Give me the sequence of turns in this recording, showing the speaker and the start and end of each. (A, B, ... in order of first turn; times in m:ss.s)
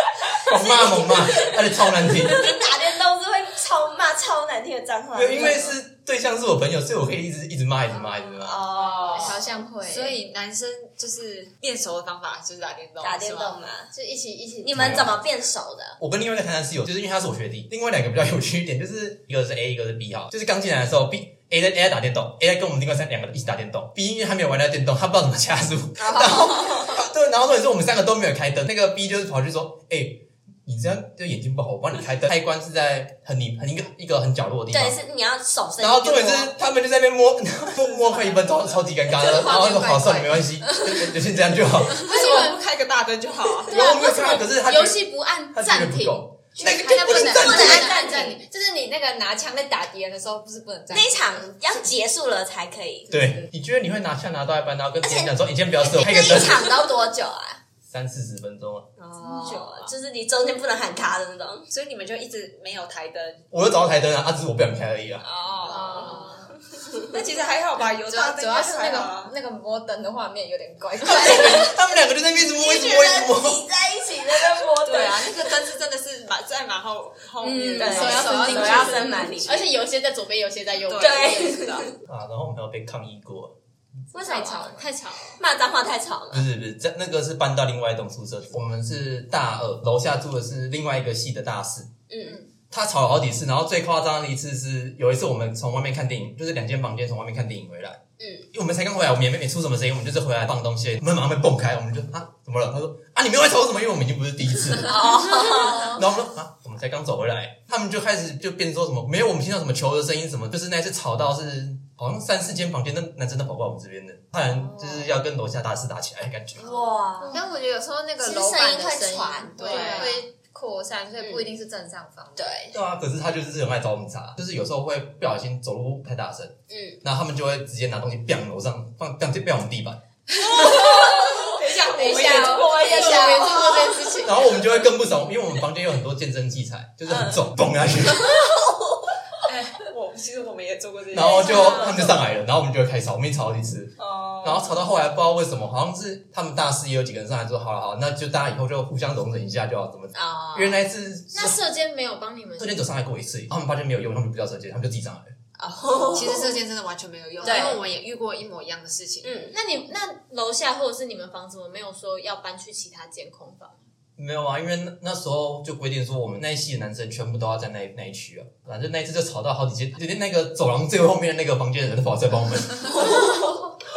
0:00.3-0:02.6 A
0:00.5-0:01.6 B
0:02.2-0:05.8 B
0:05.1-0:08.6 A
0:08.3-0:09.4 B
0:09.0-0:13.6 C
0:09.0-0:10.2 D
0:13.0-0:13.9 B
0:13.9-0:15.1 D
0:14.6-0:16.0 B
0:14.8-0:15.2 A
0:16.0-0:35.0 A
0:26.1-0:26.8 D
0:34.7-0:36.5 B
0:35.8-0:42.1 A
0:38.1-0:38.6 C
0:39.1-0:41.1 D
0:41.9-0:43.8 C
0:42.1-0:42.6 E
0:43.7-0:46.2 E
0:43.7-0:47.9 A
0:46.6-0:51.4 D
0:47.0-0:48.4 B
0:47.4-0:48.1 E
0:50.9-0:53.5 B
0:53.1-0:56.7 A
0:55.0-0:57.6 B
0:57.9-0:58.9 A
0:59.0-1:01.7 B
0:59.5-0:59.8 E
1:01.7-1:03.4 C
1:03.5-1:05.2 A
1:05.3-1:06.4 B
1:05.5-1:06.3 C
1:05.7-1:06.5 E
1:05.8-1:06.1 D
1:07.0-1:09.4 C
1:08.0-1:11.8 D
1:11.0-1:13.6 A
1:11.1-1:11.5 B
1:12.5-1:15.5 B
1:14.8-1:19.2 C
1:17.4-1:21.8 E
1:17.8-1:19.7 B
1:18.0-1:18.9 D
1:20.9-1:21.8 C
1:21.0-1:21.9 B
1:22.1-1:23.6 A
1:24.1-1:24.8 B
1:24.2-1:24.8 D
1:24.2-1:25.4 E
1:25.4-1:26.5 B
1:26.3-1:31.9 A
1:32.1-1:32.4 B
1:32.7-1:38.0 A
1:38.2-1:38.5 B
1:38.5-1:56.8 A
1:44.9-1:46.0 B
1:54.4-1:55.1 B
1:56.6-1:57.4 B
1:57.3-2:02.6 D
1:58.2-2:00.2 B
1:59.6-2:00.2 C
1:59.6-2:00.2 E
2:01.2-2:01.5 B
2:02.4-2:02.8 B
2:02.7-2:10.0 A
2:06.7-2:07.0 B
2:10.4-2:13.9 C
2:10.5-2:14.2 B
2:10.6-2:14.5 E
2:14.2-2:18.3 A
2:17.1-2:17.4 B
2:18.2-2:19.2 B
2:19.4-2:22.2 C
2:21.1-2:31.6 A
2:21.4-2:22.0 E
2:21.5-2:22.0 B
2:24.0-2:24.6 B
2:30.2-2:30.8 B
2:31.3-2:32.8 E
2:32.6-2:35.3 A
2:35.6-2:36.6 B
2:36.1-2:39.4 C
2:37.4-2:37.8 B
2:39.2-2:39.6 B
2:39.5-2:43.8 E
2:44.2-2:53.6 A
2:53.0-2:53.7 B